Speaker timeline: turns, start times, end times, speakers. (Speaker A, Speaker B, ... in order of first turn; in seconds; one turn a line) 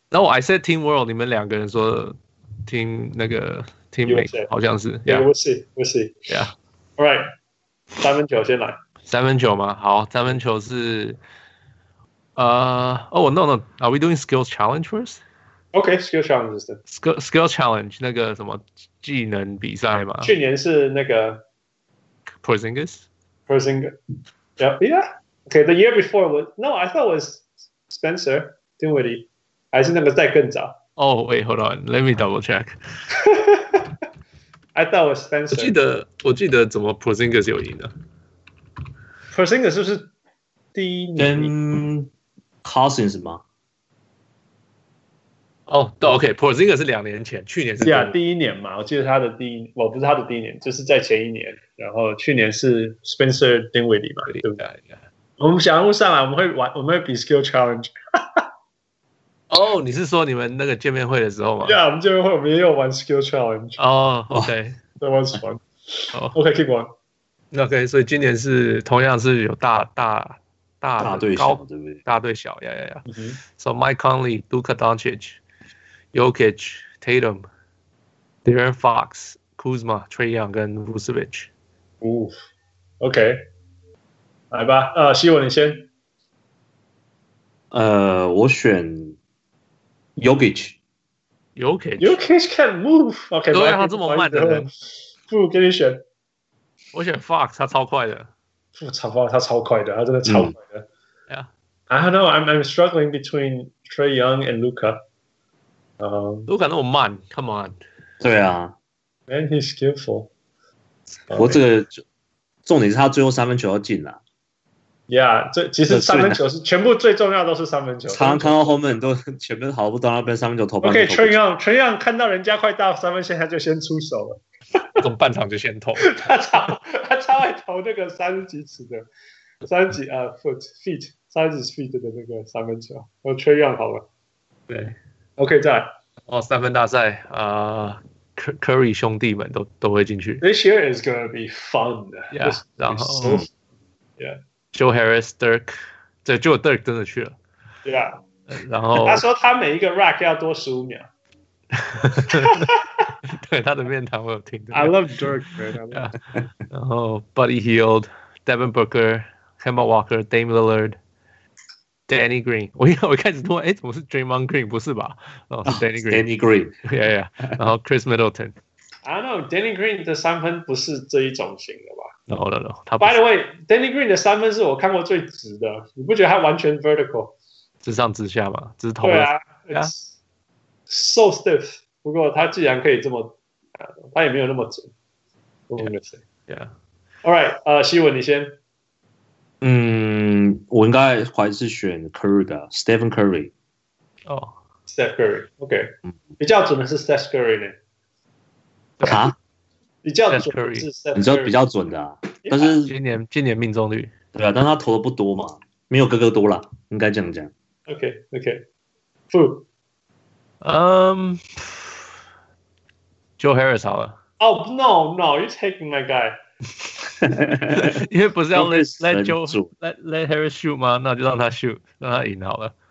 Speaker A: 0.1-5.3
Speaker B: 4.0-4.5
Speaker B: 5.1-6.3
Speaker A: 6.3-6.5
Speaker B: 7.0-7.2
Speaker B: 8.0-8.8
Speaker A: 9.1-11.2
Speaker A: 12.3-15.2
Speaker B: 15.7-16.8
Speaker A: 16.9-20.3
Speaker B: 20.2-21.4
Speaker A: 22.4-23.1
Speaker B: 23.5-23.9
Speaker B: 24.6-30.7
Speaker A: 31.0-32.8
Speaker B: 33.1-33.9
Speaker B: 34.7-35.8
Speaker A: 35.5-37.9
Speaker B: 39.3-40.1
Speaker B: 40.7-41.5
Speaker C: 41.2-42.1
Speaker C: 42.6-43.4
Speaker A: 45.7-48.1
Speaker B: 47.8-54.7
Speaker A: 54.3-55.0
Speaker B: 55.4-58.4
Speaker A: 59.5-61.8
Speaker B: 61.6-63.8
Speaker A: 63.8-64.8
Speaker B: 65.0-66.9
Speaker A: 67.5-73.0
Speaker C: 71.0-72.0
Speaker B: 73.1-73.4
Speaker A: 73.6-75.4
Speaker A: 76.1-77.4
Speaker A: 78.4-81.5
Speaker B: 82.0-82.3
Speaker B: 83.0-83.5
Speaker B: 84.5-85.9
Speaker C: 87.7-89.2
Speaker C: 90.2-90.8
Speaker A: 91.5-92.2
Speaker B: 92.0-94.7
Speaker A: 93.5-94.7
Speaker B: 95.3-96.0
Speaker A: 96.9-98.3
Speaker B: 98.8-100.9
Speaker C: 100.2-100.5
Speaker B: 101.9-105.0
Speaker B: 106.0-106.5
Speaker A: 106.5-107.8
Speaker C: 108.2-108.7
Speaker B: 109.3-110.3
Speaker B: 111.3-111.6
Speaker C: 111.3-112.0
Speaker C: 112.7-114.2
Speaker B: 115.1-118.8
Speaker C: 115.9-116.4
Speaker C: 118.1-121.3
Speaker B: 120.8-124.4
Speaker A: 125.0-126.2
Speaker B: 126.0-129.0
Speaker B: 129.6-134.0
Speaker A: 134.7-134.9
Speaker B: 135.4-135.9
Speaker A: 136.3-140.4
Speaker B: 140.4-143.5
Speaker A: 142.3-143.4
Speaker A: 144.7-147.3
Speaker B: 147.8-148.2
Speaker A: 148.5-149.2
Speaker B: 148.9-151.1
Speaker A: 151.7-152.7
Speaker B: 152.3-153.0
Speaker A: 153.3-155.3
Speaker B: 154.7-156.1
Speaker A: 155.9-156.2
Speaker A: 156.7-161.0
Speaker A: 162.1-166.2
Speaker C: 165.7-166.7
Speaker A: 166.8-168.5
Speaker B: 169.1-172.1
Speaker A: 172.3-173.2
Speaker B: 173.0-177.3
Speaker A: 177.8-179.9
Speaker B: 179.0-180.1
Speaker B: 180.9-184.9
Speaker B: 185.7-186.2
Speaker B: 187.2-188.6
Speaker C: 189.6-193.5
Speaker A: 194.2-194.5
Speaker B: 194.9-197.7
Speaker A: 199.0-199.3
Speaker C: 199.0-199.3
Speaker B: 200.0-201.6
Speaker A: 200.3-200.9
Speaker C: 201.1-202.9
Speaker B: 202.4-202.8
Speaker A: 202.8-204.1
Speaker C: 204.3-207.5
Speaker B: 207.9-208.6
Speaker B: 209.3-209.7
Speaker A: 210.6-211.9
Speaker A: 213.4-214.2
Speaker B: 214.4-216.4
Speaker C: 217.2-218.0
Speaker A: 217.7-222.7
Speaker C: 218.5-219.7